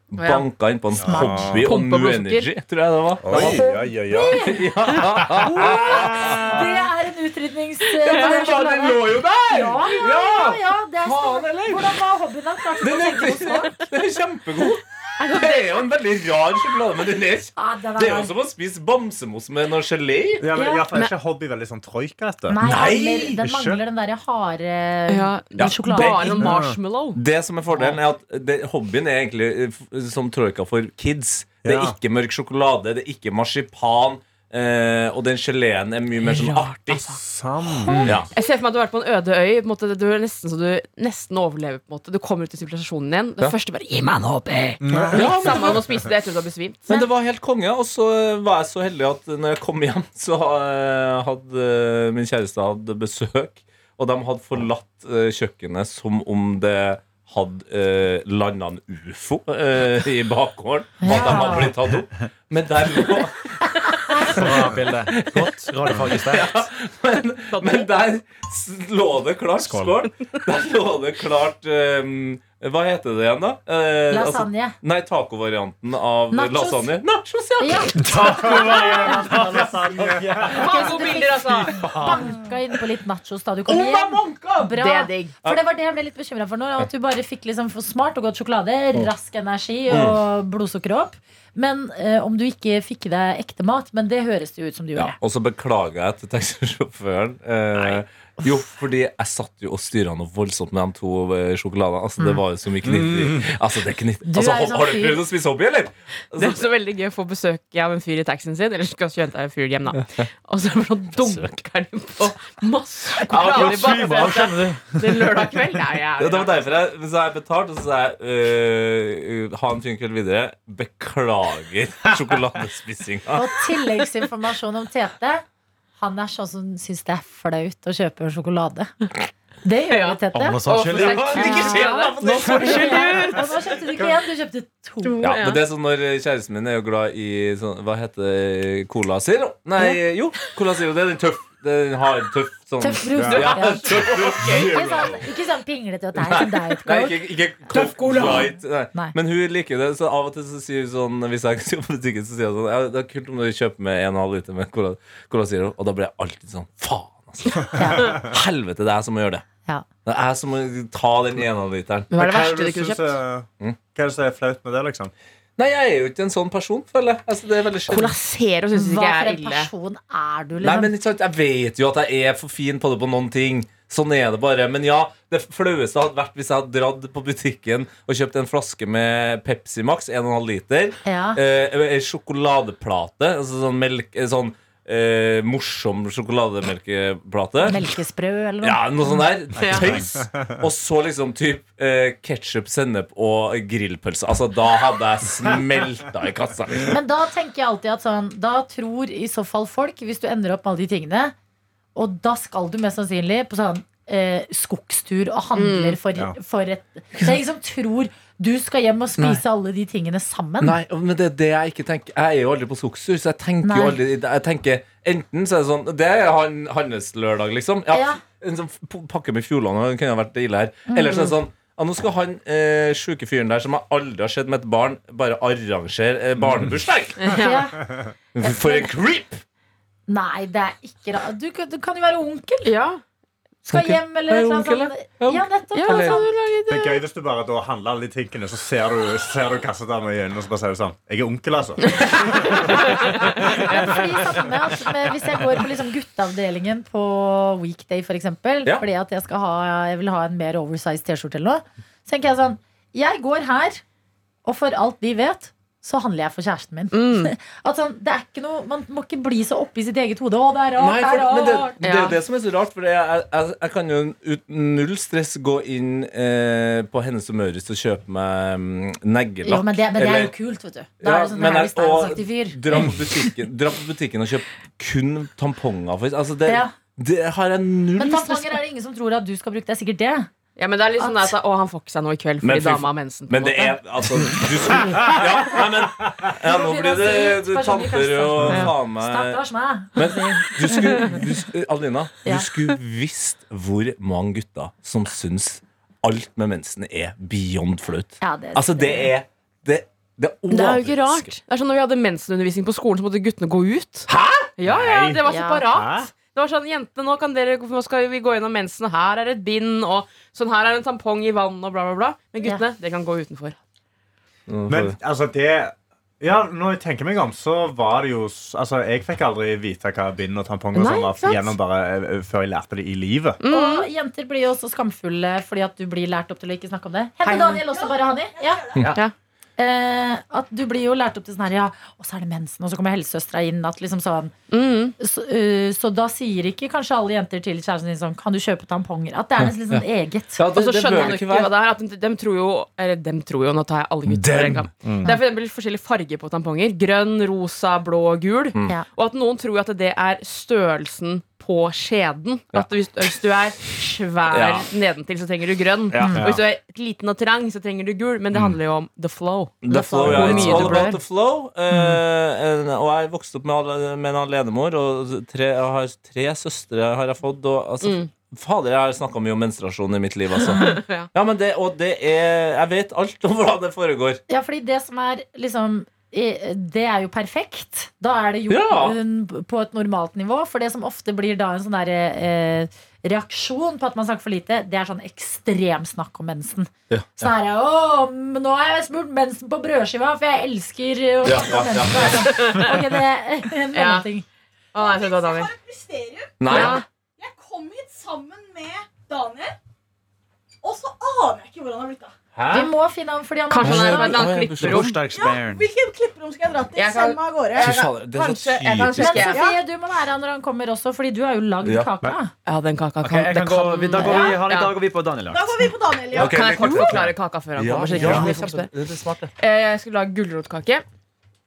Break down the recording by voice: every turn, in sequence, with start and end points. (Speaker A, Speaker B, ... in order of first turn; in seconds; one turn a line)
Speaker A: 0.1-3.6
Speaker B: 0.2-0.5
Speaker C: 1.0-1.6
Speaker D: 1.0-1.4
Speaker B: 1.6-2.5
Speaker C: 3.2-6.4
Speaker D: 3.3-4.7
Speaker A: 4.4-6.6
Speaker D: 5.5-13.8
Speaker A: 7.8-12.0
Speaker A: 12.8-20.5
Speaker D: 17.6-18.3
Speaker C: 20.4-23.8
Speaker D: 20.5-20.9
Speaker D: 22.5-26.5
Speaker A: 22.6-23.4
Speaker B: 25.1-27.2
Speaker A: 25.6-26.5
Speaker C: 26.4-26.8
Speaker A: 27.1-37.2
Speaker C: 31.6-32.0
Speaker B: 36.2-37.2
Speaker C: 37.1-38.2
Speaker D: 37.9-38.2
Speaker A: 37.9-38.3
Speaker B: 37.9-47.0
Speaker C: 44.8-46.0
Speaker E: 44.9-45.2
Speaker A: 45.1-45.8
Speaker A: 46.9-78.7
Speaker D: 61.0-61.7
Speaker E: 64.3-66.6
Speaker B: 67.5-67.9
Speaker C: 69.6-69.9
Speaker D: 74.1-74.8
Speaker D: 76.3-76.9
Speaker D: 77.6-79.4
Speaker C: 78.0-80.8
Speaker E: 79.2-80.5
Speaker B: 80.5-81.9
Speaker D: 80.5-95.2
Speaker E: 81.5-82.3
Speaker A: 83.7-84.7
Speaker B: 84.8-85.3
Speaker A: 89.9-90.2
Speaker A: 95.0-106.6
Speaker C: 102.8-103.5
Speaker D: 104.2-105.2
Speaker B: 106.4-116.7
Speaker A: 111.2-111.5
Speaker A: 113.3-114.4
Speaker E: 113.4-115.2
Speaker A: 116.2-123.7
Speaker D: 123.3-125.4
Speaker D: 126.0-128.9
Speaker D: 129.6-130.6
Speaker B: 129.9-133.6
Speaker E: 130.3-131.7
Speaker A: 130.8-133.3
Speaker D: 131.4-131.9
Speaker D: 132.4-135.2
Speaker B: 135.0-135.6
Speaker A: 135.2-145.2
Speaker D: 142.8-149.2
Speaker C: 143.2-144.7
Speaker A: 146.2-159.4
Speaker D: 157.7-158.2
Speaker A: 160.1-162.1
Speaker B: 162.1-163.2
Speaker C: 162.2-165.1
Speaker A: 165.6-168.2
Speaker B: 167.9-169.7
Speaker D: 168.7-170.9
Speaker A: 170.6-187.8
Speaker D: 181.1-181.4
Speaker D: 187.6-189.3
Speaker A: 188.6-197.0
Speaker B: 189.6-189.9
Speaker C: 189.7-190.6
Speaker D: 196.8-201.3
Speaker D: 202.0-210.8
Speaker B: 205.6-206.0
Speaker A: 210.6-227.3
Speaker D: 213.6-214.0
Speaker D: 217.9-218.2
Speaker D: 220.9-221.3
Speaker C: 226.4-226.7
Speaker B: 227.2-227.7
Speaker D: 227.3-227.8
Speaker C: 227.8-228.1
Speaker A: 228.3-229.4
Speaker D: 228.4-228.9
Speaker D: 230.1-232.7
Speaker B: 232.7-233.0
Speaker D: 233.7-236.3
Speaker A: 233.7-236.2
Speaker B: 235.8-237.0
Speaker C: 236.7-243.8
Speaker B: 242.7-243.2
Speaker D: 243.5-253.8
Speaker D: 254.4-261.8
Speaker B: 256.9-257.3
Speaker A: 260.8-270.4
Speaker B: 261.8-262.2
Speaker D: 269.4-272.9
Speaker A: 271.0-278.6
Speaker D: 276.5-276.7
Speaker D: 278.0-280.3
Speaker B: 280.6-283.8
Speaker D: 281.0-281.3
Speaker A: 282.4-289.4
Speaker D: 286.4-291.2
Speaker B: 288.4-288.7
Speaker A: 290.0-301.4
Speaker D: 298.2-299.1
Speaker B: 300.5-313.6
Speaker A: 304.1-304.5
Speaker C: 304.6-306.1
Speaker D: 305.3-305.6
Speaker A: 314.5-315.0
Speaker C: 314.7-323.4
Speaker B: 320.8-321.5
Speaker B: 323.4-323.9
Speaker D: 323.5-328.6
Speaker B: 327.2-327.6
Speaker F: 327.6-328.9
Speaker D: 329.6-334.3
Speaker B: 334.5-335.0
Speaker D: 335.0-340.4
Speaker A: 339.4-339.9
Speaker A: 340.4-341.5
Speaker B: 340.5-361.0
Speaker A: 344.1-344.7
Speaker A: 354.3-354.7
Speaker A: 355.9-356.2
Speaker D: 356.0-356.2
Speaker C: 356.1-356.4
Speaker A: 359.6-374.2
Speaker C: 360.1-360.7
Speaker D: 360.1-361.0
Speaker D: 361.7-362.0
Speaker B: 367.8-368.1
Speaker B: 370.4-371.1
Speaker D: 374.3-394.2
Speaker A: 378.5-379.0
Speaker A: 386.9-387.3
Speaker A: 391.2-392.6
Speaker B: 392.2-392.7
Speaker B: 393.7-394.1
Speaker B: 394.7-395.5
Speaker F: 394.8-396.6
Speaker A: 396.4-396.8
Speaker B: 396.5-396.9
Speaker D: 396.5-396.8
Speaker F: 397.2-399.6
Speaker F: 400.6-402.1
Speaker A: 402.4-402.7
Speaker D: 402.5-404.3
Speaker B: 403.5-405.0
Speaker A: 403.6-404.9
Speaker E: 404.6-405.7
Speaker F: 405.0-407.9
Speaker B: 406.8-409.4
Speaker A: 407.6-409.3
Speaker D: 409.0-412.3
Speaker F: 409.3-409.6
Speaker A: 411.6-411.9
Speaker B: 412.5-414.7
Speaker E: 413.0-415.7
Speaker D: 414.0-414.4
Speaker F: 415.3-416.5
Speaker B: 416.1-418.7
Speaker A: 416.1-419.3
Speaker E: 416.6-417.0
Speaker C: 418.0-418.3
Speaker B: 419.4-420.8